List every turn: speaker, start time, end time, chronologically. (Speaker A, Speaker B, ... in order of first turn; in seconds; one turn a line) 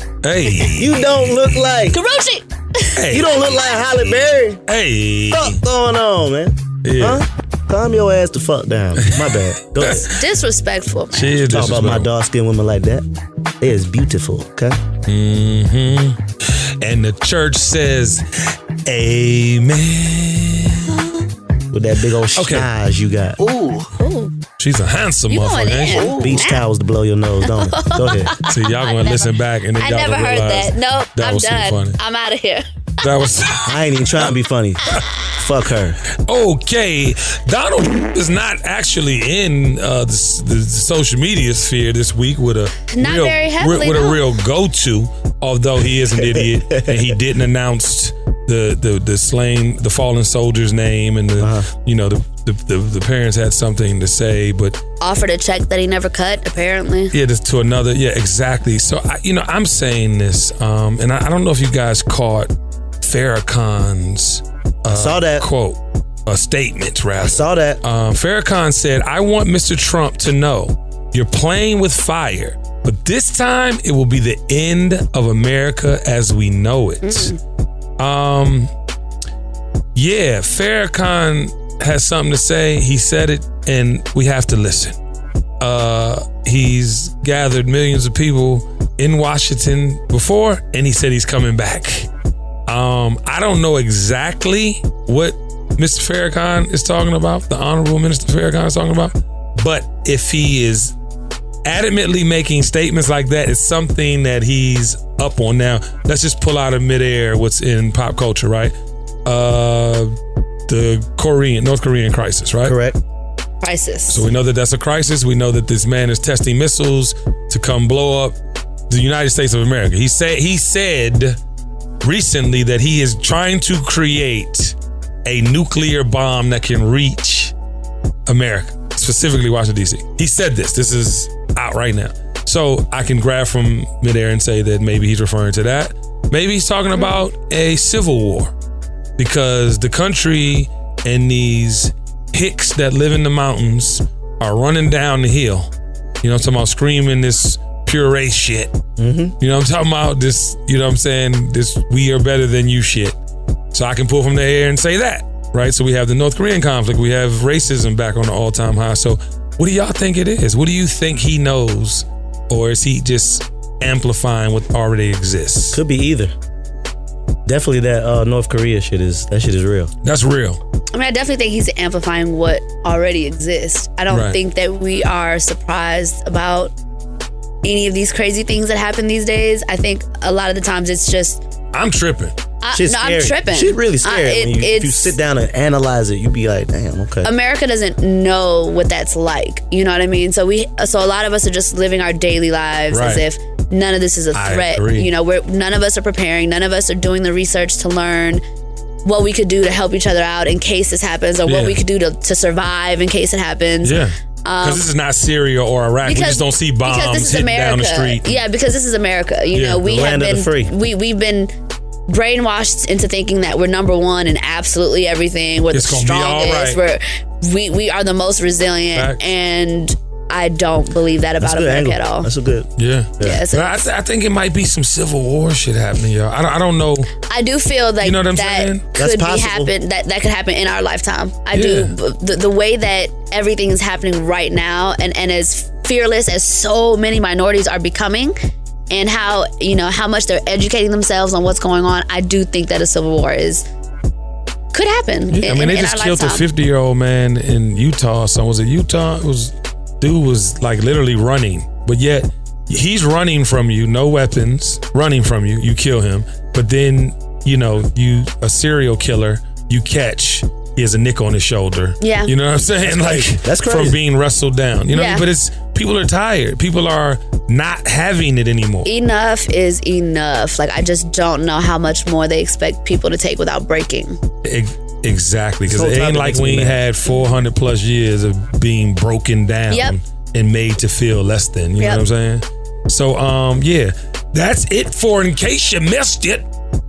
Speaker A: 0.2-1.7
Speaker B: 0.6-2.0
Speaker C: 1.9-3.7
Speaker A: 3.0-4.0
Speaker B: 3.1-4.6
Speaker A: 4.7-5.6
Speaker B: 5.3-10.1
Speaker A: 6.8-7.2
Speaker A: 9.0-10.1
Speaker C: 10.0-11.5
Speaker A: 11.1-12.1
Speaker B: 11.5-13.1
Speaker B: 13.6-14.8
Speaker A: 15.1-18.3
Speaker A: 18.9-20.9
Speaker C: 20.9-21.1
Speaker B: 21.7-23.4
Speaker A: 22.4-22.7
Speaker C: 24.0-24.3
Speaker A: 24.6-26.1
Speaker C: 25.3-26.6
Speaker B: 26.1-28.4
Speaker C: 27.4-32.6
Speaker A: 28.5-32.0
Speaker A: 33.0-34.3
Speaker B: 33.6-36.0
Speaker A: 36.2-54.8
Speaker C: 42.9-44.2
Speaker B: 46.1-47.1
Speaker B: 51.4-51.7
Speaker C: 55.0-57.1
Speaker A: 57.1-77.3
Speaker B: 64.9-65.5
Speaker B: 67.2-67.8
Speaker C: 77.0-77.4
Speaker A: 78.0-78.7
Speaker A: 80.0-85.0
Speaker A: 85.6-92.1
Speaker A: 92.7-100.9
Speaker A: 101.7-108.7
Speaker A: 109.2-110.1
Speaker A: 110.7-112.8
Speaker B: 112.6-113.0
Speaker C: 113.6-114.2
Speaker A: 114.1-118.4
Speaker A: 118.9-121.4
Speaker A: 122.0-127.5
Speaker A: 128.3-138.5
Speaker A: 139.2-145.7
Speaker A: 146.2-148.7
Speaker B: 149.0-149.3
Speaker A: 149.4-153.2
Speaker A: 153.7-165.8
Speaker B: 165.7-166.3
Speaker B: 167.5-169.9
Speaker A: 170.0-170.6
Speaker C: 170.9-176.7
Speaker A: 174.1-174.4
Speaker C: 177.6-181.4
Speaker A: 181.7-182.4
Speaker C: 182.6-185.2
Speaker B: 182.7-187.3
Speaker C: 187.2-198.4
Speaker A: 192.9-193.2
Speaker A: 194.3-195.1
Speaker C: 199.1-204.8
Speaker A: 201.5-201.8
Speaker A: 203.8-208.4
Speaker C: 206.1-211.5
Speaker A: 209.5-209.8
Speaker B: 209.8-210.7
Speaker C: 212.1-222.3
Speaker A: 215.7-216.8
Speaker A: 218.9-219.2
Speaker B: 221.4-223.4
Speaker A: 222.8-227.1
Speaker C: 223.2-223.9
Speaker C: 227.3-238.4
Speaker A: 228.0-228.8
Speaker B: 229.0-229.7
Speaker A: 231.5-231.9
Speaker C: 238.9-243.7
Speaker C: 244.7-246.4
Speaker A: 245.3-268.9
Speaker C: 262.0-262.3
Speaker B: 262.8-264.0
Speaker C: 264.9-265.3
Speaker C: 268.9-274.2
Speaker A: 274.4-286.5
Speaker B: 275.7-276.8